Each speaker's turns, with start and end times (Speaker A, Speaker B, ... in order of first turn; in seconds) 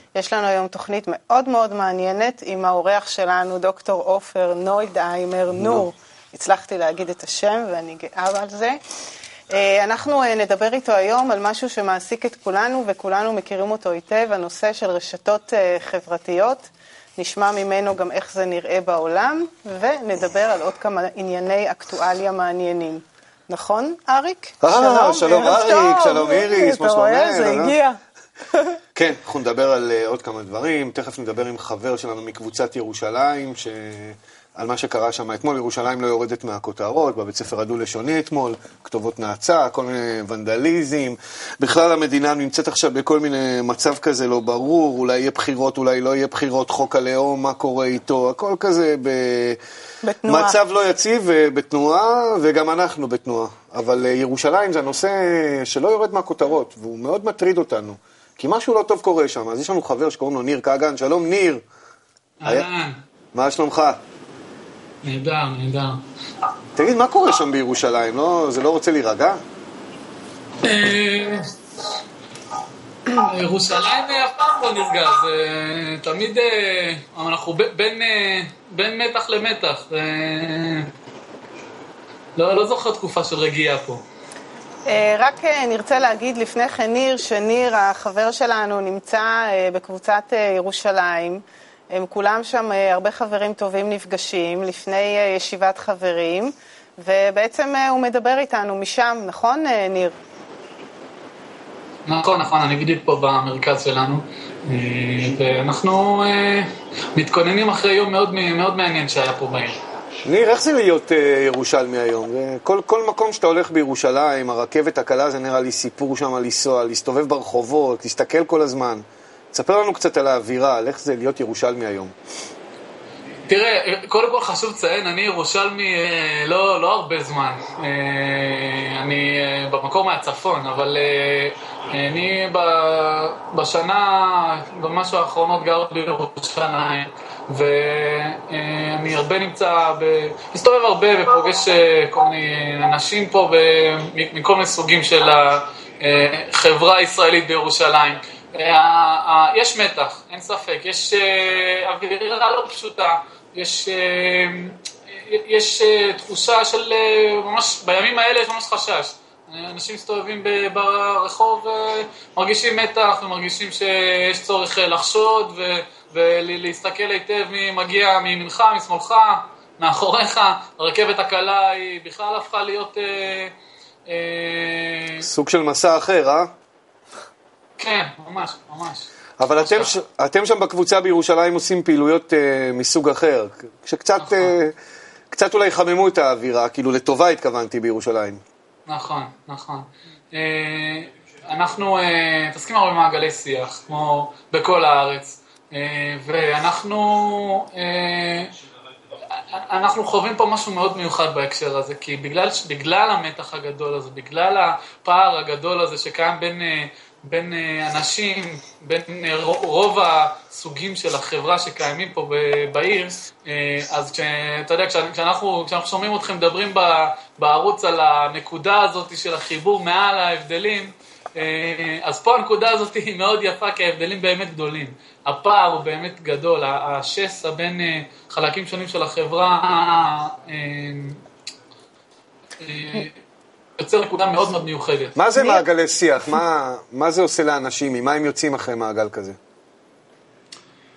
Speaker A: 0.1-8.8, 9.5-28.0, 28.5-28.8, 50.0-50.6, 84.9-100.2
Speaker B: 24.6-27.8, 28.9-49.6, 50.3-61.6, 63.3-64.0, 66.8-69.4, 110.2-122.1, 175.2-176.5, 179.4-184.8, 185.3-188.4, 235.2-239.4
Speaker C: 62.4-63.0, 65.0-66.0, 70.6-71.5, 73.1-80.9, 82.4-84.0, 102.1-109.8, 123.5-173.5, 174.1-175.2, 177.8-179.9, 184.2-184.5, 188.9-198.5, 199.5-231.2, 232.6-233.2, 233.8-235.2